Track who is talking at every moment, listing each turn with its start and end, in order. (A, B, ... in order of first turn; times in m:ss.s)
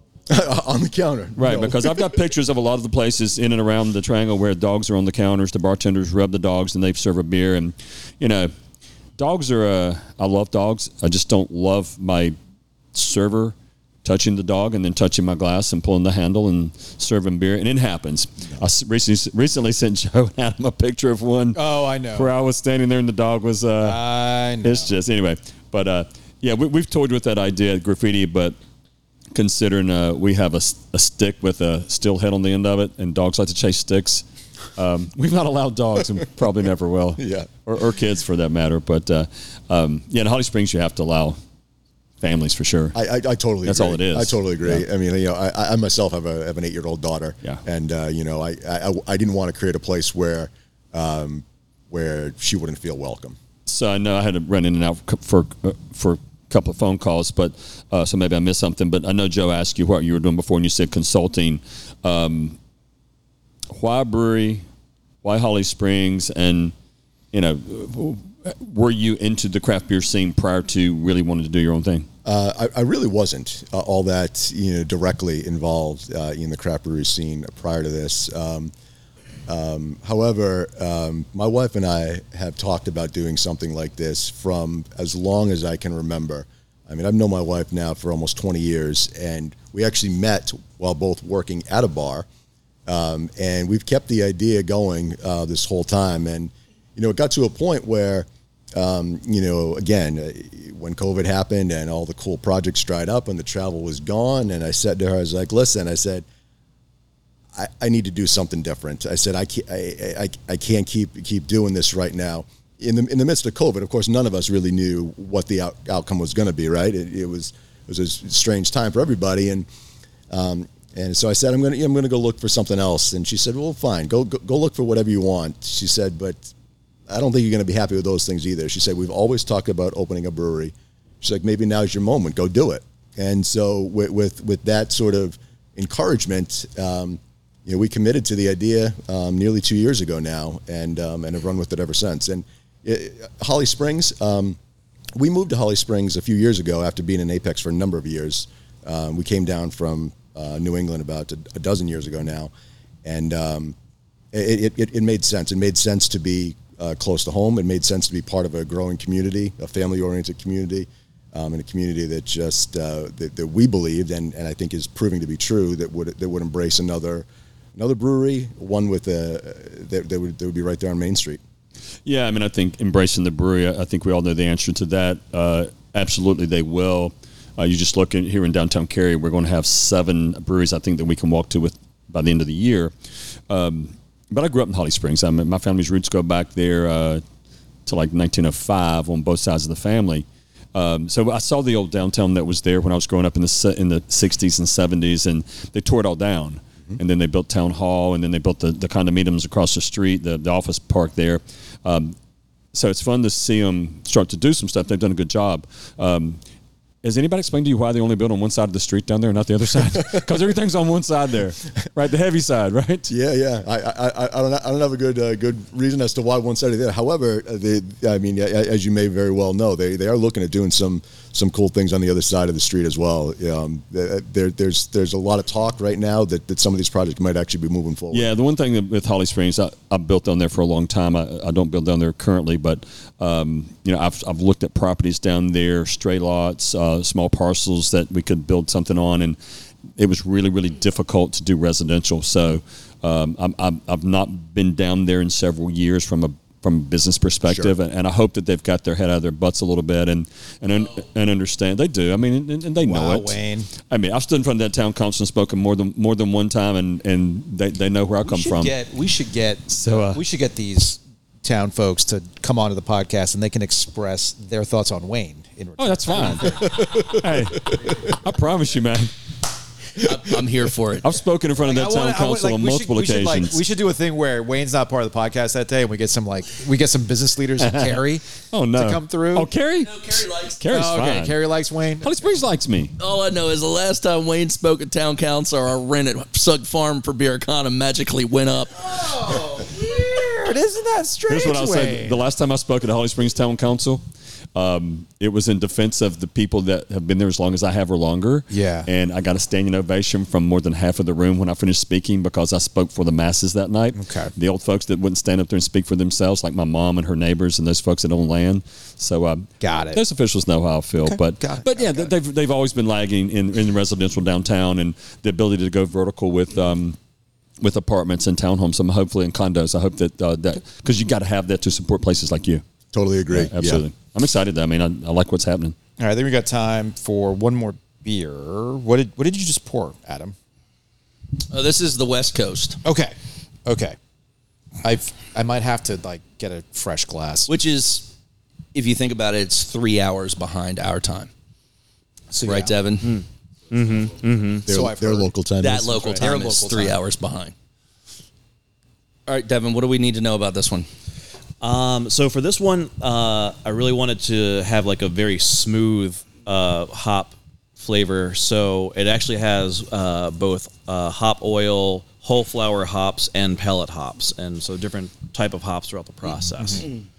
0:00.3-0:02.2 A
0:01.4-0:08.5 B
0:09.2-0:12.4 B
0:12.9-0:28.6 B
0:21.5-0:22.3 C
0:23.8-0:24.9 C
0:29.3-0:34.2 B
0:34.8-0:41.4 B
0:37.2-0:37.5 A
0:42.2-0:43.0 B
0:43.0-0:53.4 A
0:43.6-0:44.8 B
0:53.7-1:02.6 B
1:03.7-1:04.6 B
1:05.2-1:06.7 B
1:07.3-1:12.1 B
1:12.2-1:18.7 A
1:19.5-1:32.3 A
1:32.9-1:46.2 A
1:47.5-1:59.7 A
2:00.3-2:06.5 A
2:07.1-2:24.6 A
2:25.2-2:32.5 A
2:33.0-2:33.8 A
2:34.3-2:51.4 A
2:52.0-3:02.9 B
3:03.5-3:07.2 B
3:07.9-3:22.2 B
3:22.7-3:26.4 B
3:27.0-3:33.1 B
3:33.1-3:48.3 A
3:48.1-3:59.4 B
4:00.0-4:18.7 B
4:07.5-4:07.7 A
4:12.8-4:13.7 C
4:18.2-4:26.7 C
4:19.7-4:20.2 B
4:25.8-4:29.1 B
4:26.9-4:27.2 A
4:30.0-4:31.2 D
4:31.0-4:33.6 B
4:31.6-4:39.5 C
4:37.6-4:40.1 B
4:39.8-4:40.6 D
4:40.6-4:41.4 B
4:40.7-4:42.4 C
4:42.0-4:42.9 B
4:43.0-4:50.4 D
4:50.4-4:52.2 C
4:51.3-4:54.0 B
4:54.6-5:17.0 B
4:58.5-4:58.9 C
5:04.0-5:04.3 C
5:09.6-5:10.0 C
5:11.0-5:12.1 C
5:17.6-5:22.6 B
5:22.9-5:23.8 A
5:23.4-5:25.8 B
5:26.0-5:30.4 C
5:31.5-5:32.8 D
5:32.8-5:33.1 C
5:33.7-5:34.0 C
5:34.8-5:37.5 C
5:37.5-5:38.1 D
5:38.7-5:41.3 D
5:42.3-5:42.7 C
5:42.4-5:43.2 D
5:43.0-5:44.7 E
5:44.7-5:46.3 A
5:44.7-5:45.3 C
5:45.6-5:47.5 D
5:46.2-5:47.0 C
5:49.3-5:50.9 D
5:51.6-6:06.9 E